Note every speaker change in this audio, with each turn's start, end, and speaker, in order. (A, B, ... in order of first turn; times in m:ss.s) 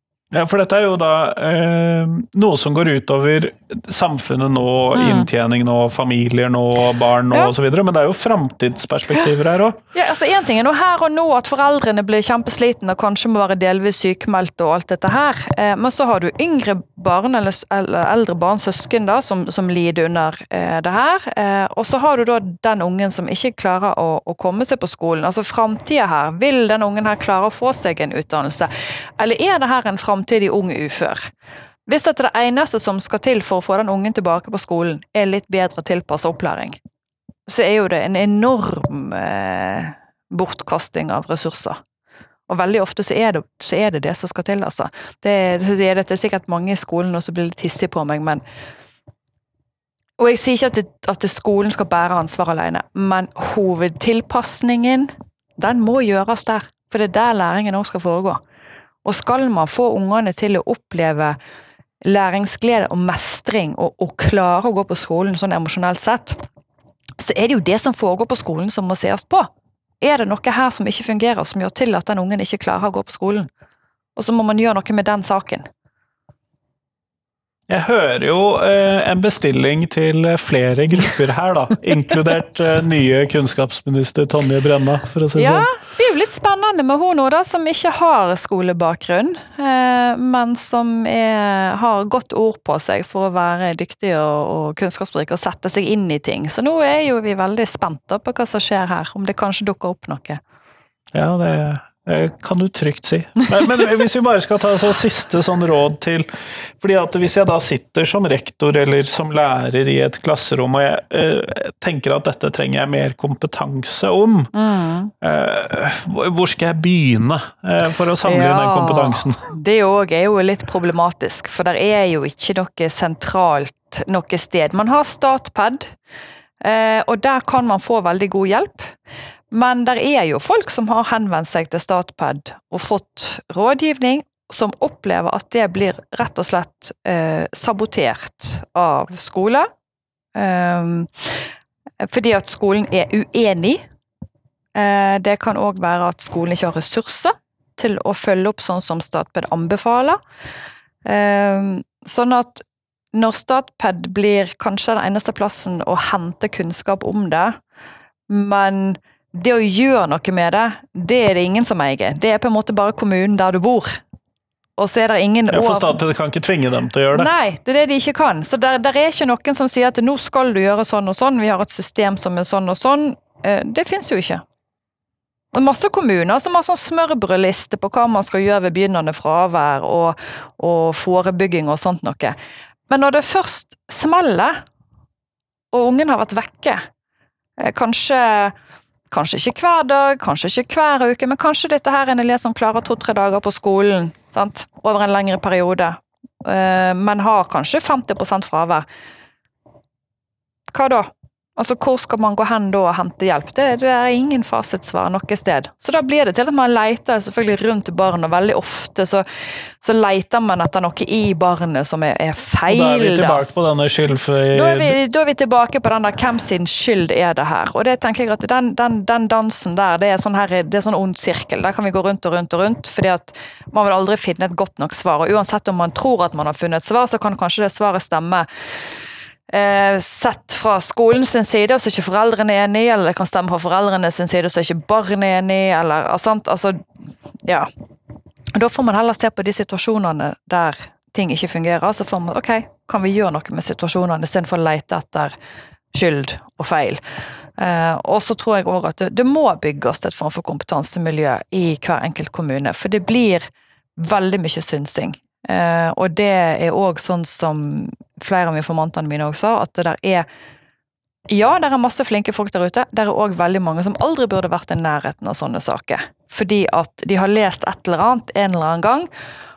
0:00.3-0:09.8 A
0:04.9-0:05.3 B
0:09.9-0:31.3 B
0:31.9-0:36.8 B
0:37.5-0:41.8 B
0:42.5-0:48.4 B
0:50.2-0:58.4 B
0:59.0-1:01.4 B
1:02.0-1:06.4 B
1:07.2-1:09.5 B
1:10.0-1:13.5 B
1:14.2-1:15.7 B
1:17.7-1:25.7 A
1:25.4-1:40.4 B
1:41.1-1:46.3 A
1:43.6-1:43.8 B
1:46.8-1:54.5 A
1:54.5-1:55.1 B
1:55.2-1:59.5 A
1:58.2-2:05.9 B
2:06.6-2:08.9 B
2:09.5-2:19.7 B
2:20.3-2:21.3 B
2:22.0-2:23.8 B
2:24.8-2:30.2 B
2:31.0-2:37.6 B
2:38.3-2:44.0 B
2:44.8-2:46.0 B
2:45.5-2:47.3 A
2:47.1-2:54.4 B
2:55.5-3:02.3 B
3:02.9-3:04.6 B
3:05.7-3:06.9 B
3:07.6-3:08.5 B
3:09.1-3:18.8 B
3:20.7-3:29.2 B
3:29.8-3:33.4 B
3:32.7-3:35.0 A
3:34.5-3:48.4 B
3:49.5-3:56.8 B
3:58.5-4:05.3 B
4:05.9-4:07.0 B
4:07.6-4:20.2 B
4:21.3-4:29.1 B